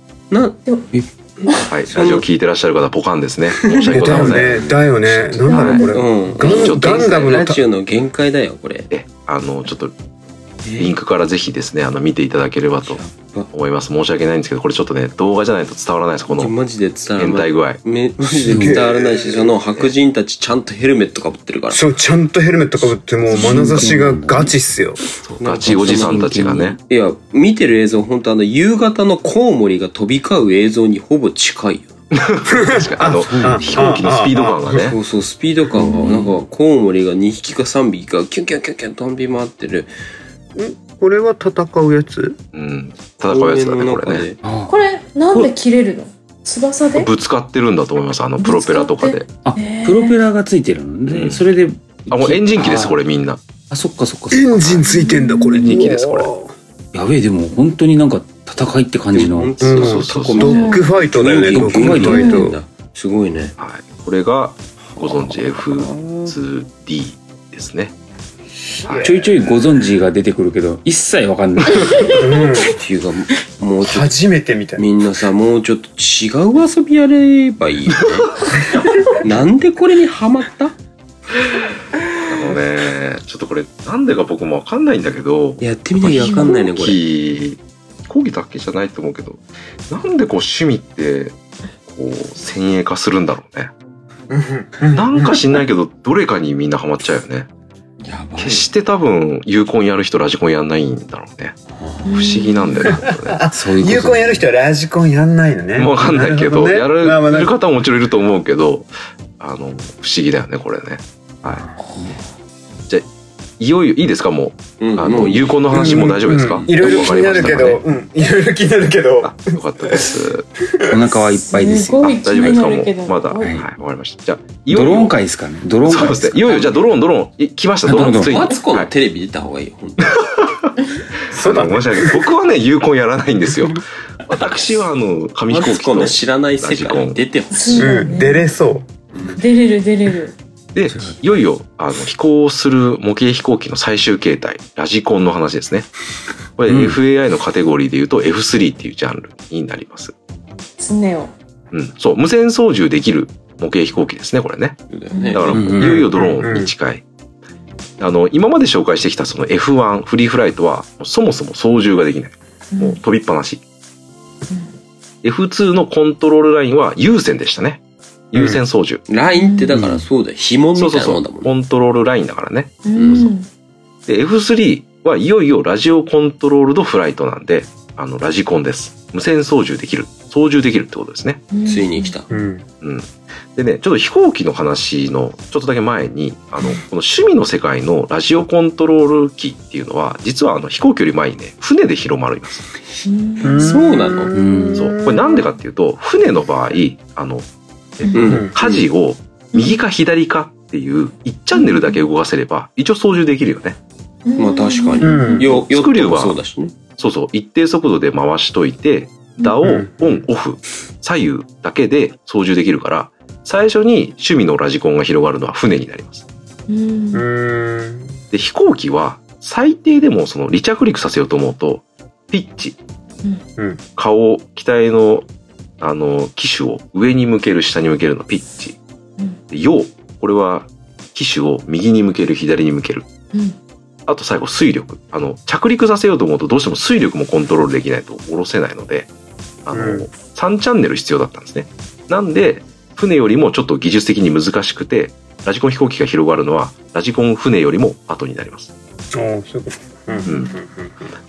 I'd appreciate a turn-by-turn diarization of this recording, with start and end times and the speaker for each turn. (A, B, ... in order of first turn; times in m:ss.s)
0:00.3-0:02.2 A
0:01.7-0:04.6 B
0:03.6-0:04.9 A
0:03.9-0:07.6 C
0:05.3-0:06.0 D
0:05.5-0:05.9 B
0:05.7-0:08.9 A
0:06.4-0:07.5 B
0:08.9-0:09.9 B
0:10.6-0:11.0 A
0:10.8-0:16.5 B
0:13.0-0:13.5 A
0:16.3-0:21.8 A
0:17.2-0:17.8 B
0:18.4-0:18.8 E
0:18.5-0:19.5 C
0:21.7-0:25.0 C
0:23.3-0:24.5 E
0:25.2-0:26.8 B
0:25.4-0:26.2 A
0:25.6-0:26.8 E
0:26.9-0:32.0 A
0:32.1-0:35.0 B
0:32.5-0:34.9 C
0:33.1-0:34.0 E
0:34.8-0:39.9 A
0:35.8-0:36.2 D
0:40.5-0:42.4 C
0:42.5-0:44.3 B
0:43.3-0:44.4 A
0:44.4-0:44.7 E
0:44.7-0:47.1 D
0:46.9-0:49.3 B
0:48.4-0:50.2 D
0:49.4-0:53.0 E
0:51.1-0:51.4 B
0:52.1-0:53.4 B
0:53.7-0:55.0 E
0:54.3-0:56.5 C
0:54.9-0:55.7 D
0:55.6-0:56.3 B
0:56.9-0:59.8 E
0:59.1-1:03.5 A
0:59.6-1:02.6 C
0:59.7-1:00.6 B
1:00.4-1:00.9 D
1:01.5-1:02.4 E
1:02.0-1:02.5 D
1:03.6-1:07.9 B
1:05.7-1:06.4 C
1:08.8-1:09.2 C
1:08.8-1:09.1 B
1:09.0-1:12.2 E
1:12.2-1:12.7 C
1:12.7-1:14.1 A
1:13.8-1:14.9 C
1:14.8-1:18.4 A
1:19.2-1:20.8 A
1:22.3-1:31.4 B
1:25.6-1:27.0 A
1:26.2-1:26.6 D
1:31.9-1:33.7 B
1:34.3-1:35.4 C
1:34.9-1:37.5 B
1:38.0-1:38.6 A
1:38.4-1:41.6 B
1:41.8-1:42.1 A
1:42.0-1:42.9 D
1:42.1-1:43.4 B
1:42.9-1:47.5 C
1:43.5-1:44.4 E
1:45.8-1:51.6 B
1:51.9-1:52.2 E
1:53.6-1:57.8 B
1:54.8-1:56.0 A
1:55.7-2:00.1 C
1:56.8-1:57.4 A
1:59.2-2:00.5 B
2:00.9-2:02.5 E
2:01.5-2:03.6 D
2:02.1-2:05.2 B
2:03.4-2:03.6 E
2:04.7-2:06.6 E
2:05.8-2:08.9 B
2:07.8-2:08.4 E
2:07.9-2:10.2 A
2:10.0-2:10.7 B
2:11.3-2:17.2 B
2:11.3-2:12.2 C
2:15.5-2:18.0 A
2:17.5-2:18.5 D
2:17.7-2:18.9 C
2:19.1-2:19.4 A
2:19.4-2:20.4 D
2:20.7-2:25.9 B
2:20.9-2:21.2 E
2:26.6-2:30.1 B
2:26.7-2:27.0 E
2:30.8-2:31.3 D
2:31.7-2:34.8 B
2:34.9-2:35.8 A
2:35.1-2:35.5 D
2:35.3-2:37.0 B
2:35.5-2:36.1 E
2:35.9-2:36.7 C
2:38.0-2:43.6 B
2:42.7-2:43.0 D
2:45.2-2:49.0 B
2:48.3-2:48.6 C
2:49.1-2:51.5 A
2:49.3-2:49.8 D
2:49.7-2:50.0 E
2:50.7-2:53.3 B
2:52.8-2:53.5 D
2:53.0-2:53.3 A
2:54.1-3:01.5 B
3:01.5-3:02.2 D
3:01.6-3:02.3 A
3:02.3-3:02.6 C
3:02.8-3:12.7 B
3:13.0-3:13.8 D
3:13.4-3:15.5 C
3:13.6-3:14.3 A
3:14.3-3:14.9 E
3:14.7-3:17.4 B
3:18.0-3:23.8 B
3:18.0-3:18.4 D
3:18.1-3:18.9 A
3:18.2-3:18.5 C
3:21.5-3:21.9 D
3:24.2-3:25.5 D
3:24.4-3:26.7 A
3:25.0-3:25.5 C
3:25.4-3:26.4 B
3:27.0-3:36.2 B
3:29.6-3:30.2 C
3:36.7-3:37.2 D
3:37.1-3:38.2 C
3:38.3-3:42.8 B
3:44.0-3:45.2 B
3:45.8-3:48.8 B
3:49.5-3:53.1 B
3:54.1-3:59.1 B
3:59.6-4:08.7 B
3:59.7-4:00.0 C
4:09.1-4:11.0 C
4:10.1-4:10.5 D